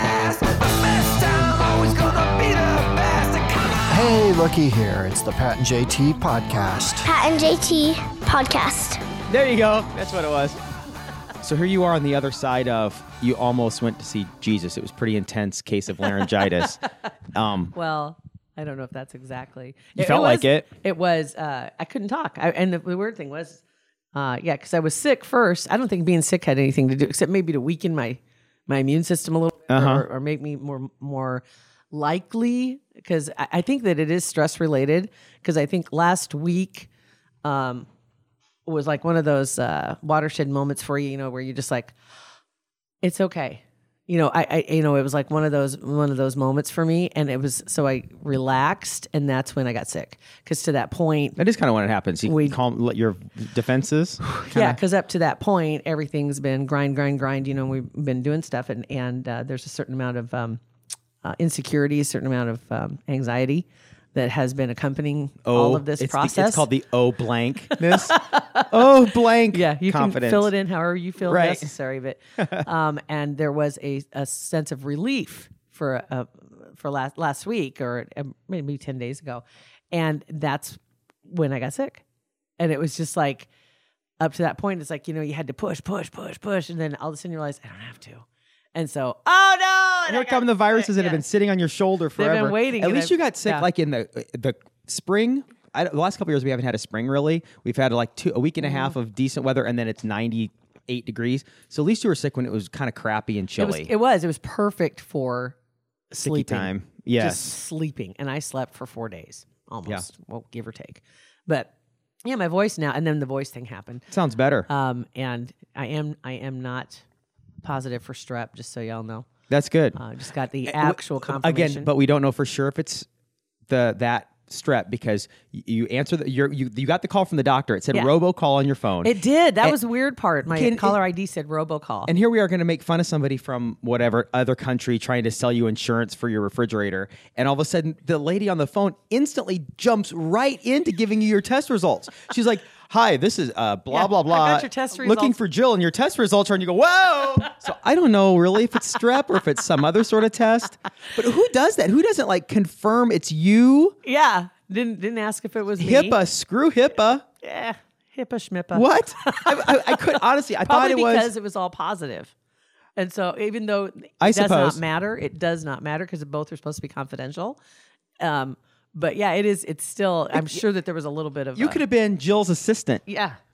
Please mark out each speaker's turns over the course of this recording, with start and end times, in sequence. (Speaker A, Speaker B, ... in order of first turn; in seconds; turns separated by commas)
Speaker A: 3.9-7.1, Speaker B: 7.0-9.0, Speaker C: 9.3-10.6, Speaker C: 11.4-16.8, Speaker C: 17.3-17.7, Speaker D: 17.7-23.6, Speaker C: 19.9-20.7, Speaker D: 24.1-36.9, Speaker C: 29.7-30.0, Speaker D: 37.4-37.9, Speaker D: 38.6-42.0, Speaker D: 43.0-51.4, Speaker C: 51.4-54.8, Speaker D: 52.2-52.6, Speaker D: 54.2-60.6, Speaker D: 61.2-66.7, Speaker C: 65.5-70.5, Speaker D: 67.7-68.9, Speaker D: 69.5-82.0, Speaker C: 71.3-71.7, Speaker C: 72.4-72.6, Speaker D: 82.6-83.5, Speaker D: 84.2-91.2, Speaker C: 90.1-103.9, Speaker D: 92.2-93.7, Speaker D: 98.7-98.9, Speaker D: 103.6-105.6, Speaker D: 106.1-111.7, Speaker C: 106.2-107.6, Speaker D: 112.2-114.1, Speaker C: 114.1-114.7, Speaker D: 114.7-117.0, Speaker D: 117.6-119.3, Speaker C: 119.5-120.0, Speaker D: 120.0-121.9, Speaker C: 120.6-123.1, Speaker C: 123.7-129.8, Speaker D: 129.0-132.1, Speaker C: 130.5-131.0, Speaker C: 132.1-154.0, Speaker D: 143.9-145.4, Speaker D: 154.0-156.2, Speaker C: 155.8-157.2, Speaker D: 157.4-162.3, Speaker C: 158.7-161.3, Speaker D: 163.0-167.6, Speaker C: 164.2-164.8, Speaker D: 168.2-171.8, Speaker C: 170.3-170.6, Speaker C: 171.6-173.0, Speaker D: 173.1-173.4